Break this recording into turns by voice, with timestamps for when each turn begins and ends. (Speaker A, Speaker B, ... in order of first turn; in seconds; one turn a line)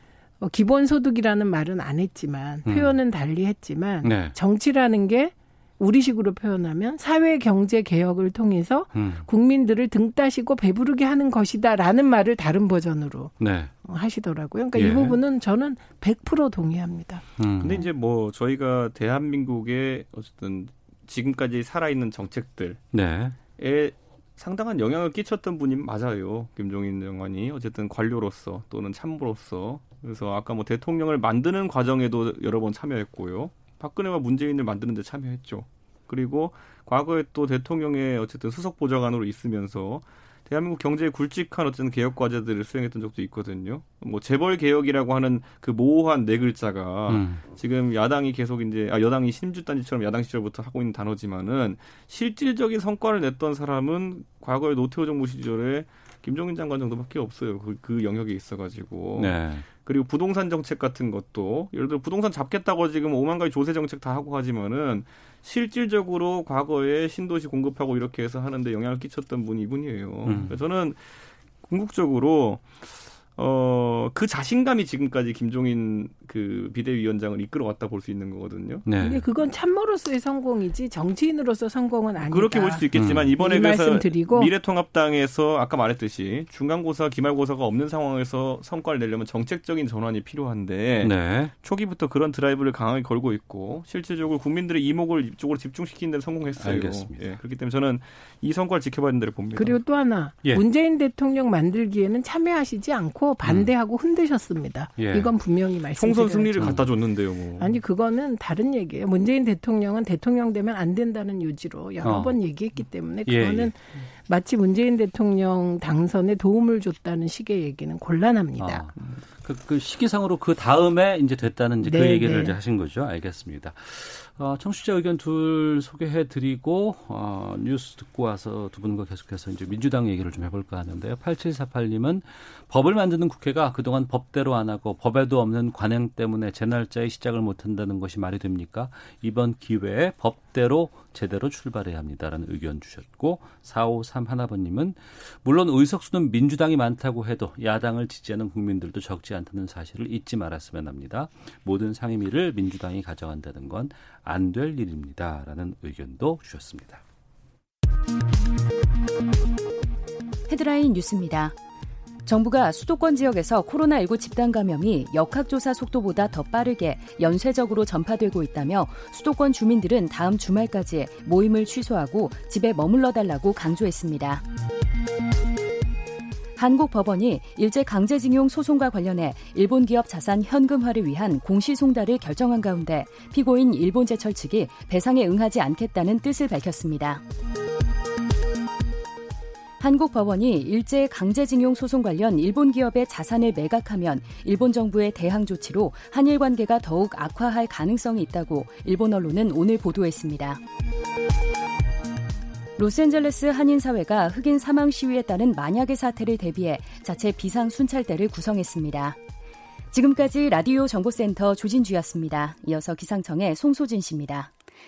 Speaker A: 0.4-17.2
Speaker B: 2.7-3.0
Speaker B: 4.0-4.3
Speaker B: 8.9-9.2
Speaker B: 13.4-13.7
Speaker B: 14.8-15.2
Speaker B: 17.4-17.9
Speaker C: 17.6-22.8
Speaker B: 22.9-23.4
Speaker C: 23.6-71.0
Speaker B: 47.1-47.4
Speaker B: 59.2-59.7
Speaker B: 70.3-70.6
Speaker C: 71.6-72.7
Speaker C: 73.4-78.8
Speaker B: 78.8-79.2
Speaker A: 79.0-82.9
Speaker C: 82.2-99.8
Speaker B: 83.0-83.3
Speaker A: 83.4-84.5
Speaker B: 91.0-91.5
Speaker B: 96.6-97.2
Speaker A: 99.6-106.8
Speaker B: 105.0-105.3
Speaker C: 106.0-107.8
Speaker B: 106.6-106.9
Speaker A: 107.6-118.8
Speaker B: 112.0-112.4
Speaker B: 113.3-113.7
Speaker B: 118.6-157.0
Speaker A: 121.8-122.6
Speaker D: 160.5-161.5
Speaker D: 162.2-174.4
Speaker D: 176.6-187.2
Speaker D: 189.8-200.6
Speaker D: 202.8-209.2
Speaker D: 209.9-214.5